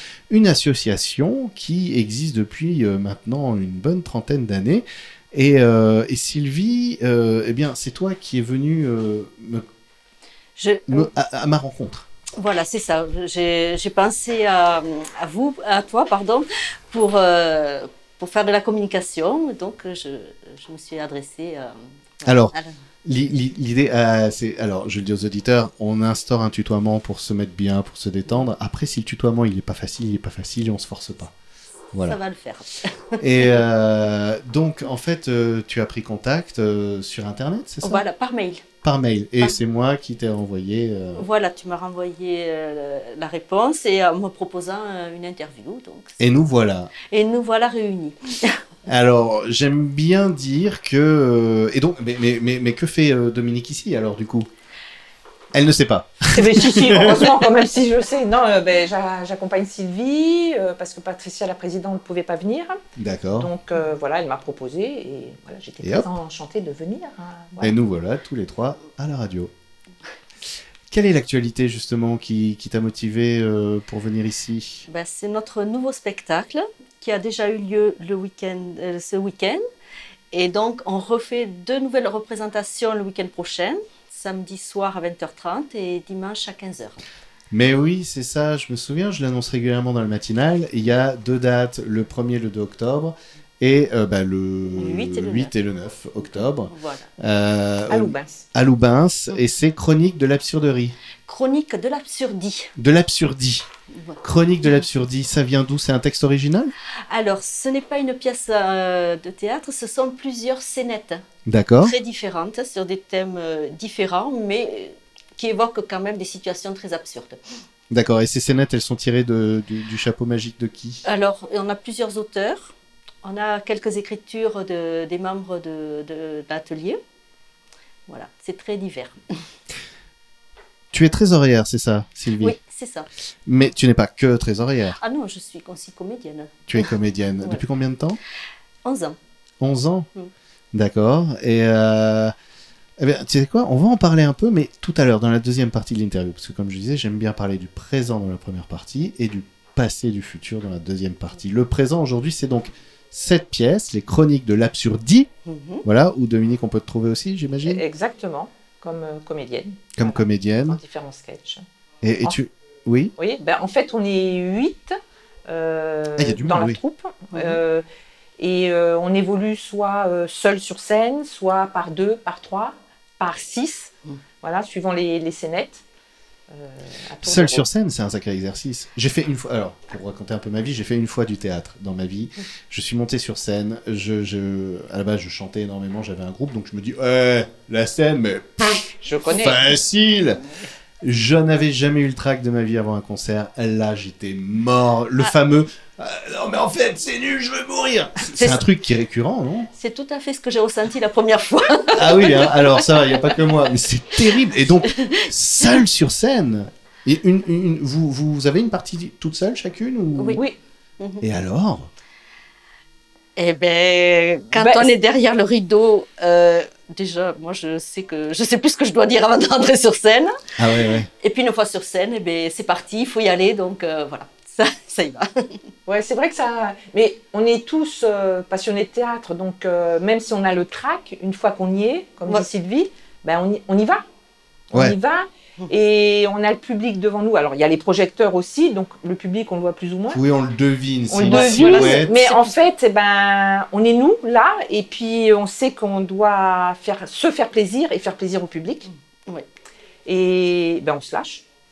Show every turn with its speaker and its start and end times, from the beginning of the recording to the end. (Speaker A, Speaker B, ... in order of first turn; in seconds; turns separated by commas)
Speaker A: 0.3-9.6, Speaker B: 10.6-11.1, Speaker A: 10.9-12.1, Speaker B: 12.4-22.7, Speaker A: 22.2-22.5, Speaker A: 23.0-31.3, Speaker A: 31.9-32.2, Speaker B: 32.0-33.6, Speaker A: 33.2-38.0, Speaker B: 37.8-38.6, Speaker A: 38.8-41.2, Speaker B: 41.1-46.2, Speaker A: 46.2-46.9, Speaker B: 47.0-48.5, Speaker A: 48.9-54.5, Speaker A: 55.5-57.4, Speaker C: 56.3-62.8, Speaker A: 63.0-63.5, Speaker C: 63.4-67.8, Speaker A: 65.8-66.1, Speaker A: 67.6-69.5, Speaker A: 70.9-74.8, Speaker B: 74.9-79.6, Speaker B: 80.3-87.0, Speaker A: 87.5-101.0, Speaker B: 94.7-95.5, Speaker B: 96.6-97.1, Speaker C: 97.9-98.5, Speaker B: 101.2-102.7, Speaker A: 102.8-103.6, Speaker B: 103.9-104.2, Speaker A: 104.2-106.7, Speaker B: 107.1-111.2, Speaker A: 111.5-111.9, Speaker B: 111.8-117.4, Speaker A: 117.9-121.0, Speaker B: 121.0-127.0, Speaker B: 128.1-129.2, Speaker A: 130.9-132.6, Speaker B: 132.4-133.1, Speaker A: 133.5-135.0, Speaker B: 135.0-136.8, Speaker A: 136.7-138.2, Speaker B: 138.8-139.2, Speaker A: 139.6-140.1, Speaker A: 140.7-142.3, Speaker A: 143.0-155.3, Speaker B: 155.4-155.8, Speaker A: 155.8-157.8, Speaker C: 157.6-161.6, Speaker A: 159.9-160.8, Speaker A: 162.0-163.1, Speaker C: 163.2-164.9, Speaker C: 165.5-167.8, Speaker A: 166.2-166.8, Speaker B: 167.3-167.6, Speaker C: 168.4-175.8, Speaker C: 176.5-177.7, Speaker A: 177.2-190.4, Speaker C: 189.0-189.7, Speaker A: 191.0-199.7, Speaker B: 198.3-198.6, Speaker B: 199.7-203.7, Speaker A: 201.9-210.4, Speaker B: 204.3-205.8, Speaker B: 210.1-210.4, Speaker A: 211.2-211.9, Speaker B: 213.4-220.3, Speaker C: 214.5-214.9, Speaker A: 220.6-221.1, Speaker B: 221.2-225.6, Speaker C: 225.8-234.0, Speaker C: 234.7-240.2, Speaker A: 240.1-242.1, Speaker C: 241.1-248.9, Speaker B: 241.2-242.6, Speaker C: 250.1-251.4